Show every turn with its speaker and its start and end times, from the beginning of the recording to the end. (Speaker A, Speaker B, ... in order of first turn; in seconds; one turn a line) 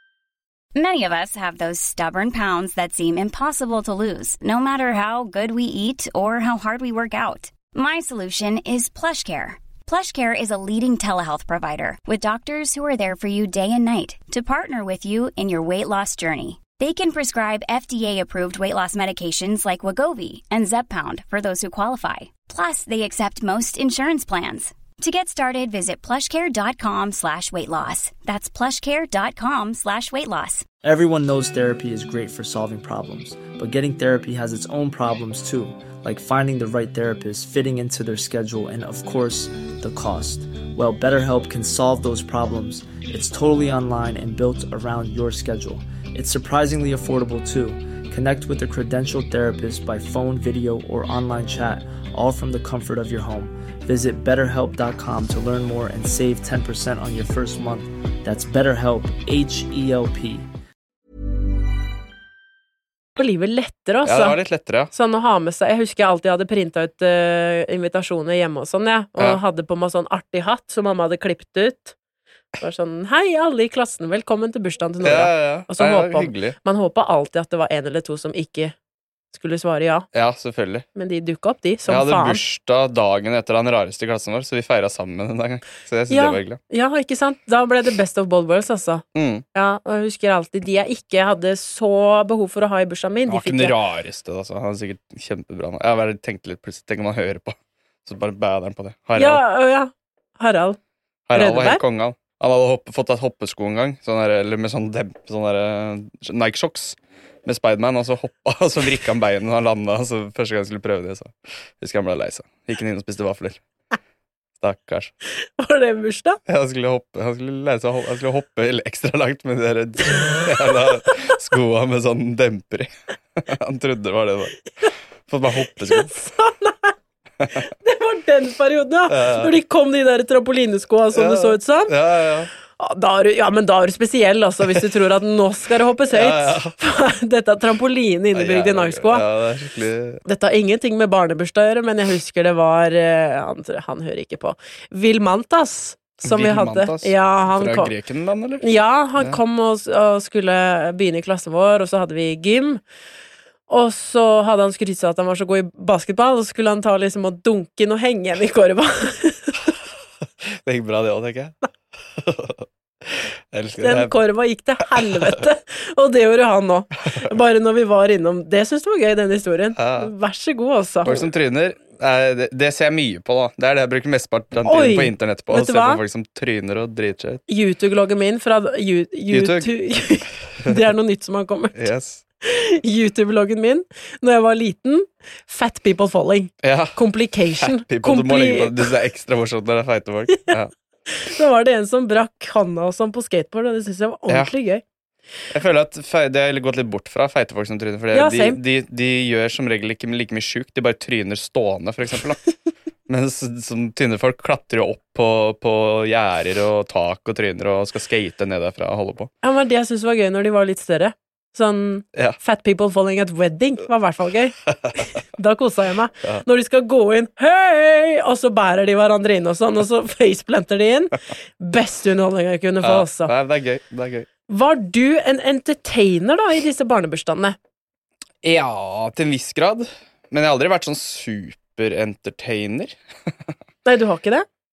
Speaker A: 0.8-30.6
Speaker B: 30.8-60.5
Speaker C: 63.2-64.4
Speaker D: 64.0-64.9
Speaker C: 64.9-72.0
Speaker C: 72.6-78.8
Speaker D: 75.0-76.6
Speaker C: 79.3-80.1
Speaker D: 80.1-80.8
Speaker C: 81.0-82.4
Speaker D: 81.9-86.6
Speaker C: 86.1-89.0
Speaker D: 89.2-89.4
Speaker C: 89.5-93.8
Speaker D: 93.3-99.4
Speaker C: 99.2-100.8
Speaker D: 101.3-113.6
Speaker C: 101.3-101.8
Speaker D: 114.6-115.1
Speaker C: 115.6-116.4
Speaker D: 116.5-124.7
Speaker D: 125.3-126.2
Speaker C: 125.8-127.0
Speaker C: 127.7-131.9
Speaker D: 129.1-129.5
Speaker D: 131.1-132.5
Speaker C: 132.8-139.2
Speaker D: 136.1-136.7
Speaker D: 138.3-140.2
Speaker C: 140.2-147.9
Speaker D: 146.2-148.6
Speaker C: 148.6-152.8
Speaker C: 153.7-159.6
Speaker D: 160.5-161.6
Speaker D: 162.2-162.7
Speaker D: 163.5-164.2
Speaker C: 163.8-171.2
Speaker D: 164.9-165.4
Speaker D: 169.8-170.1
Speaker D: 171.1-177.4
Speaker C: 174.7-176.0
Speaker C: 177.5-181.9
Speaker D: 179.3-179.7
Speaker D: 181.8-182.2
Speaker C: 182.4-188.9
Speaker D: 186.6-187.0
Speaker D: 187.6-190.7
Speaker C: 191.1-194.8
Speaker D: 195.5-202.4
Speaker C: 198.1-198.6
Speaker D: 203.1-209.3
Speaker C: 209.4-223.3
Speaker D: 222.8-224.3
Speaker C: 224.5-227.6
Speaker D: 228.4-232.9
Speaker C: 233.8-234.5